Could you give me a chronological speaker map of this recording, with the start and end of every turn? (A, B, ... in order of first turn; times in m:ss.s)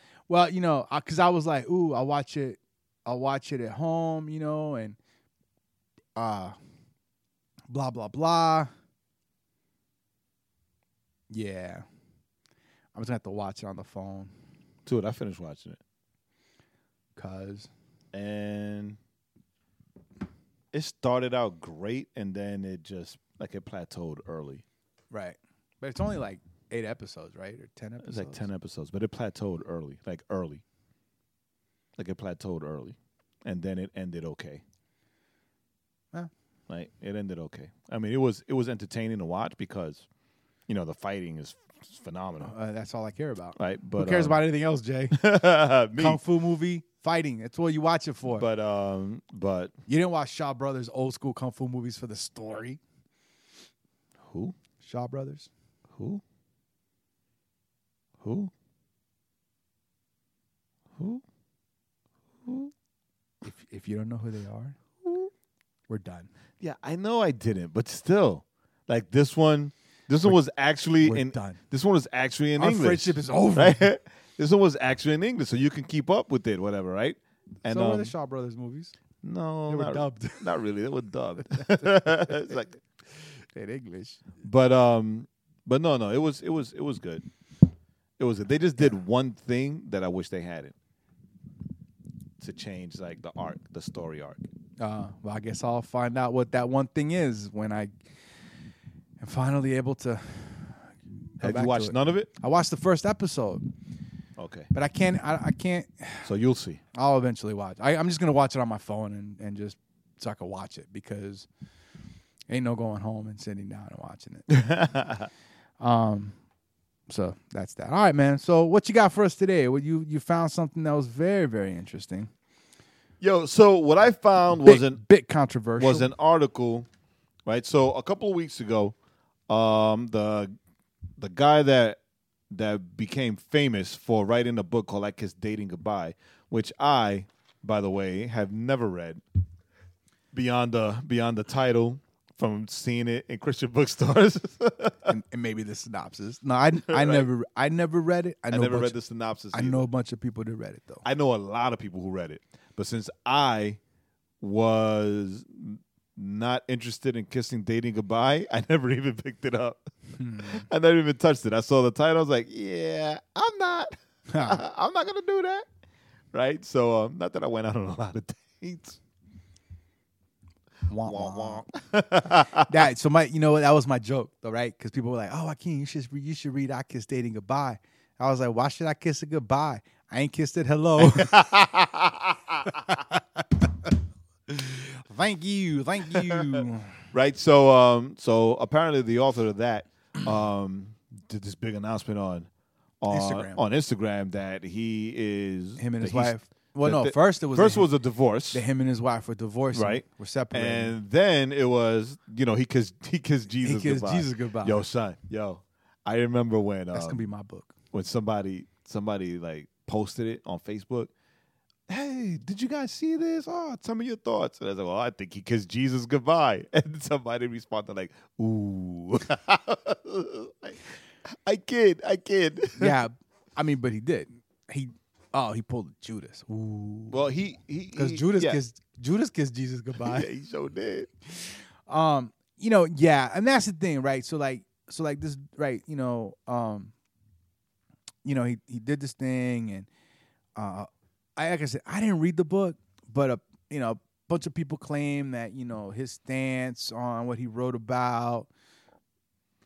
0:00.3-0:05.0 A
0:06.2-0:06.6 A
0:07.7-0:08.7 A
0:11.3-0:11.8 A
0:12.9-0:14.3 A
0:14.8-0:15.8 B
0:17.2-0:17.7 A
0:18.1-0:19.0 B
0:20.7-0:24.6 B
0:25.1-0:28.5 A
0:28.0-0:30.6 B
0:32.0-0:34.6 B
0:36.7-0:40.0 B
0:40.7-0:42.5 B
0:42.4-0:45.2 A
0:43.6-0:44.4 B
0:45.1-0:46.2 B
0:45.9-0:48.4 A
0:48.3-0:49.7 B
0:49.9-0:52.8 A
0:54.2-0:54.6 B
0:54.8-0:55.5 A
0:55.9-0:56.2 B
0:58.2-0:58.5 B
1:01.0-1:01.2 B
1:02.4-1:02.7 B
1:03.4-1:04.8 A
1:05.0-1:05.3 B
1:05.9-1:06.3 A
1:06.6-1:18.1 B
1:11.0-1:11.6 A
1:12.6-1:13.9 A
1:17.6-1:18.9 A
1:19.2-1:22.8 B
1:19.7-1:20.5 A
1:21.4-1:22.5 A
1:23.5-1:24.3 A
1:24.4-1:27.2 B
1:28.2-1:30.7 B
1:32.4-1:34.4 B
1:34.8-1:37.9 A
1:39.2-1:43.7 A
1:41.4-1:42.3 B
1:44.4-1:44.7 B
1:44.7-1:46.3 A
1:46.2-1:46.8 B
1:46.9-1:51.5 A
1:52.5-1:54.6 A
1:54.5-1:55.3 B
1:55.8-1:56.4 A
1:57.1-2:02.3 A
2:03.2-2:05.0 B
2:04.6-2:06.1 A
2:05.8-2:06.9 B
2:07.4-2:08.9 B
2:09.5-2:10.5 B
2:11.2-2:12.0 B
2:12.5-2:19.2 B
2:20.3-2:25.1 B
2:25.0-2:29.0 A
2:26.8-2:27.3 B
2:28.5-2:29.9 B
2:29.5-2:31.0 A
2:31.0-2:33.8 B
2:34.4-2:45.6 B
2:40.2-2:40.6 A
2:44.3-2:44.6 A
2:46.3-2:49.0 B
2:50.9-2:51.7 A
2:51.0-2:52.8 B
2:52.5-3:01.5 A
3:01.0-3:02.8 B
3:02.7-3:03.4 A
3:04.5-3:07.0 A
3:06.2-3:06.6 B
3:07.1-3:12.5 B
3:13.0-3:18.6 B
3:13.1-3:13.6 A
3:15.8-3:17.9 A
3:18.5-3:20.9 A
3:19.7-3:27.2 B
3:23.6-3:24.8 A
3:26.9-3:27.7 A
3:27.9-3:31.1 B
3:31.9-3:43.0 B
3:42.8-3:47.3 A
3:47.1-3:48.6 B
3:47.9-3:50.3 A
3:50.0-3:51.1 B
3:51.3-3:56.9 A
3:58.2-3:59.9 A
4:00.6-4:08.5 A